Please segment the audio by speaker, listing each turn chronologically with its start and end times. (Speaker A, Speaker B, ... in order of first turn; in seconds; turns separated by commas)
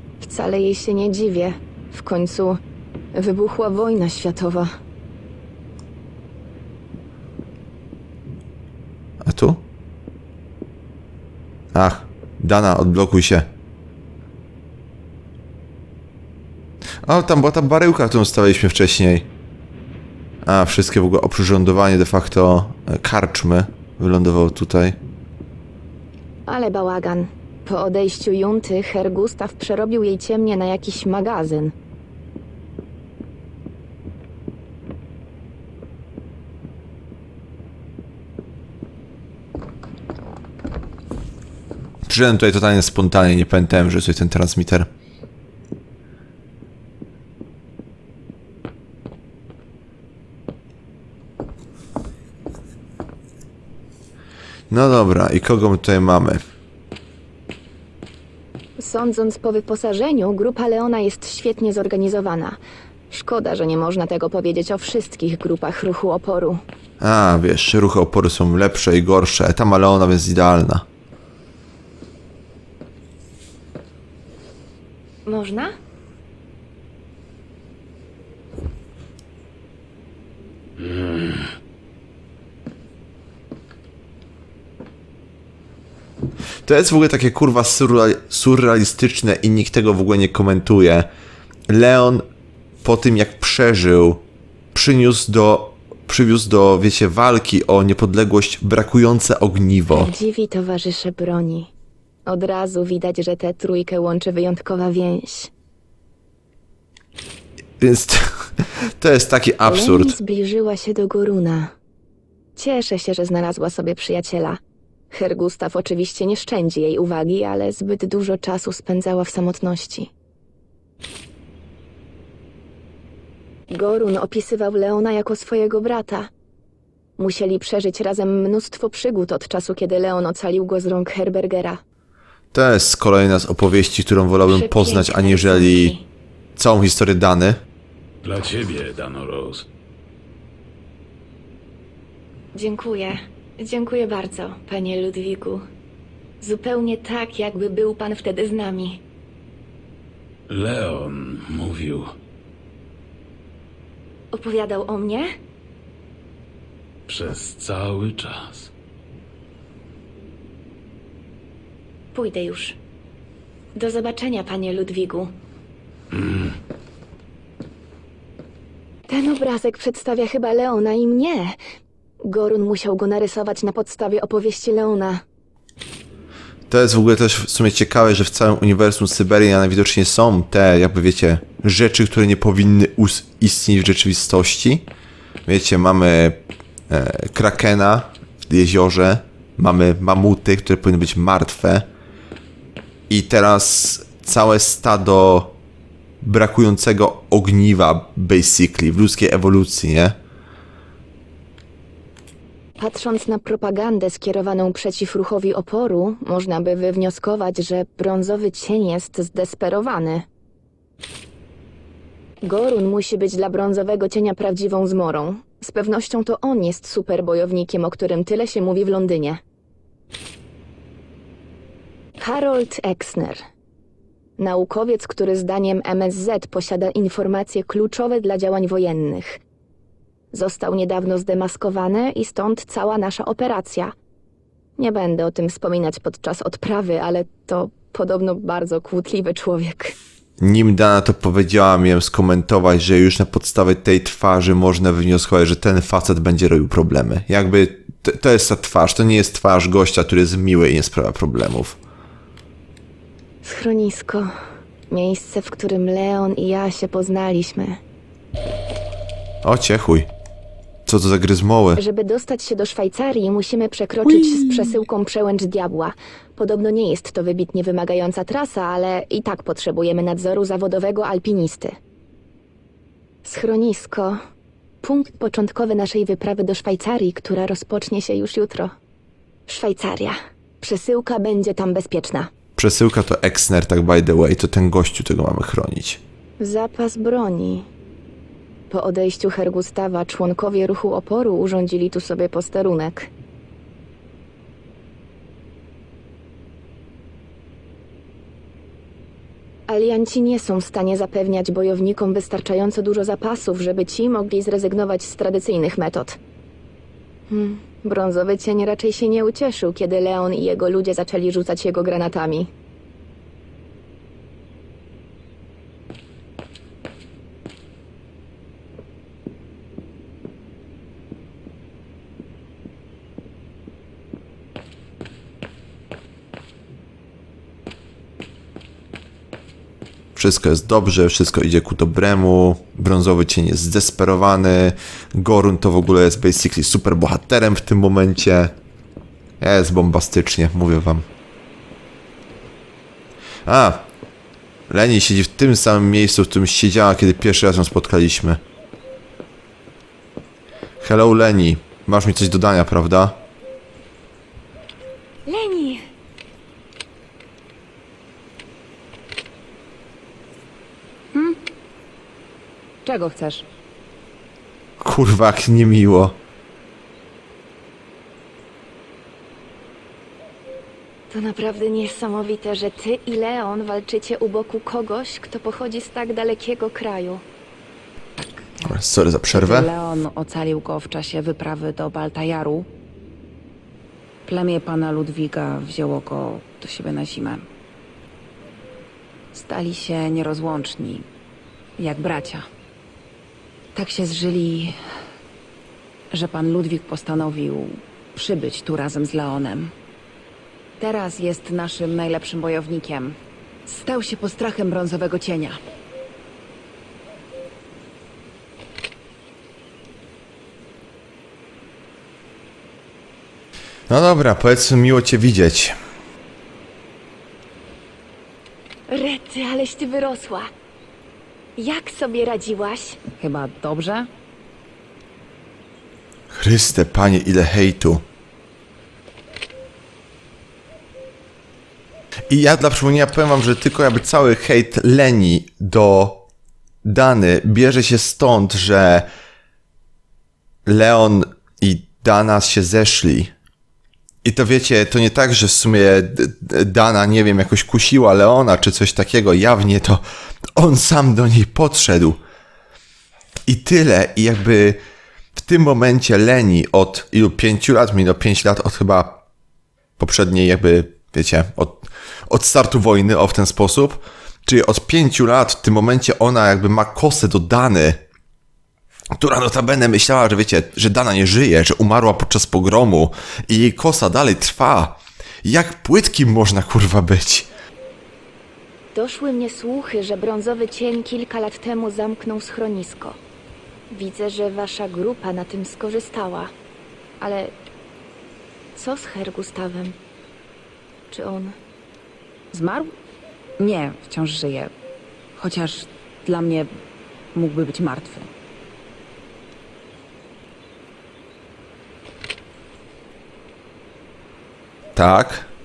Speaker A: 0.2-2.6, Speaker A: 3.1-4.8, Speaker B: 9.2-9.6, Speaker B: 11.7-13.5, Speaker B: 17.0-19.3, Speaker B: 20.4-25.0, Speaker A: 26.5-31.7, Speaker B: 42.1-44.9, Speaker B: 54.7-56.4, Speaker A: 58.8-62.6, Speaker A: 63.1-66.6, Speaker B: 67.0-70.8, Speaker A: 75.2-75.7, Speaker C: 80.8-81.4, Speaker B: 86.7-91.1, Speaker B: 91.7-92.2, Speaker B: 92.8-100.1, Speaker A: 99.9-101.7, Speaker A: 102.2-105.5, Speaker B: 107.8-110.2, Speaker A: 109.7-111.7, Speaker A: 112.5-114.6, Speaker A: 115.1-120.1, Speaker A: 123.7-126.3, Speaker A: 127.2-131.8, Speaker B: 132.5-135.9, Speaker A: 134.4-136.0, Speaker B: 136.6-137.6, Speaker C: 138.2-139.7, Speaker A: 142.5-145.6, Speaker A: 146.4-149.0, Speaker C: 150.5-152.1, Speaker A: 154.3-155.3, Speaker C: 157.1-158.7, Speaker A: 162.1-162.8, Speaker A: 163.7-165.3, Speaker C: 166.1-166.5, Speaker A: 169.1-171.6, Speaker A: 172.2-175.2, Speaker B: 176.7-184.8, Speaker B: 185.4-191.9, Speaker B: 193.1-195.6, Speaker B: 196.2-200.2, Speaker A: 202.8-210.3, Speaker A: 212.4-219.4, Speaker A: 222.2-223.4, Speaker A: 224.4-229.4, Speaker A: 230.3-233.9, Speaker A: 234.8-239.9, Speaker B: 240.4-251.8, Speaker A: 253.4-254.3, Speaker A: 254.9-257.8, Speaker B: 259.4-260.1, Speaker B: 260.9-261.8, Speaker A: 261.8-271.8, Speaker A: 273.2-274.2, Speaker A: 274.8-278.7, Speaker A: 279.5-282.3, Speaker B: 282.6-286.0, Speaker A: 286.4-287.7, Speaker A: 288.7-293.1, Speaker A: 299.7-306.2, Speaker A: 307.3-312.5, Speaker B: 330.1-338.5, Speaker B: 339.4-341.1, Speaker B: 343.4-343.9, Speaker B: 344.7-348.4, Speaker B: 350.8-353.2, Speaker A: 355.2-355.8, Speaker D: 362.8-363.4, Speaker B: 364.8-366.2, Speaker A: 371.1-377.2, Speaker D: 378.2-378.7, Speaker B: 378.6-379.7, Speaker D: 379.3-382.7, Speaker D: 384.2-387.4, Speaker D: 389.3-391.1, Speaker D: 391.8-392.4, Speaker D: 393.7-394.7, Speaker D: 396.1-399.7, Speaker D: 400.8-405.6, Speaker B: 413.9-415.7, Speaker A: 418.9-420.5, Speaker A: 421.6-423.0, Speaker D: 423.2-424.1, Speaker B: 426.3-428.0, Speaker B: 432.3-436.2, Speaker B: 436.8-439.1, Speaker B: 440.6-443.3, Speaker B: 444.2-450.0, Speaker B: 450.6-452.2, Speaker B: 453.5-454.8, Speaker B: 455.4-459.2, Speaker B: 460.0-468.0, Speaker B: 469.2-477.5, Speaker A: 478.9-483.2, Speaker A: 483.9-486.5, Speaker A: 487.2-487.5, Speaker A: 488.7-490.0, Speaker A: 491.1-491.6, Speaker D: 492.5-492.9, Speaker D: 493.6-494.7, Speaker D: 495.4-496.7, Speaker D: 497.3-498.3, Speaker B: 504.9-505.5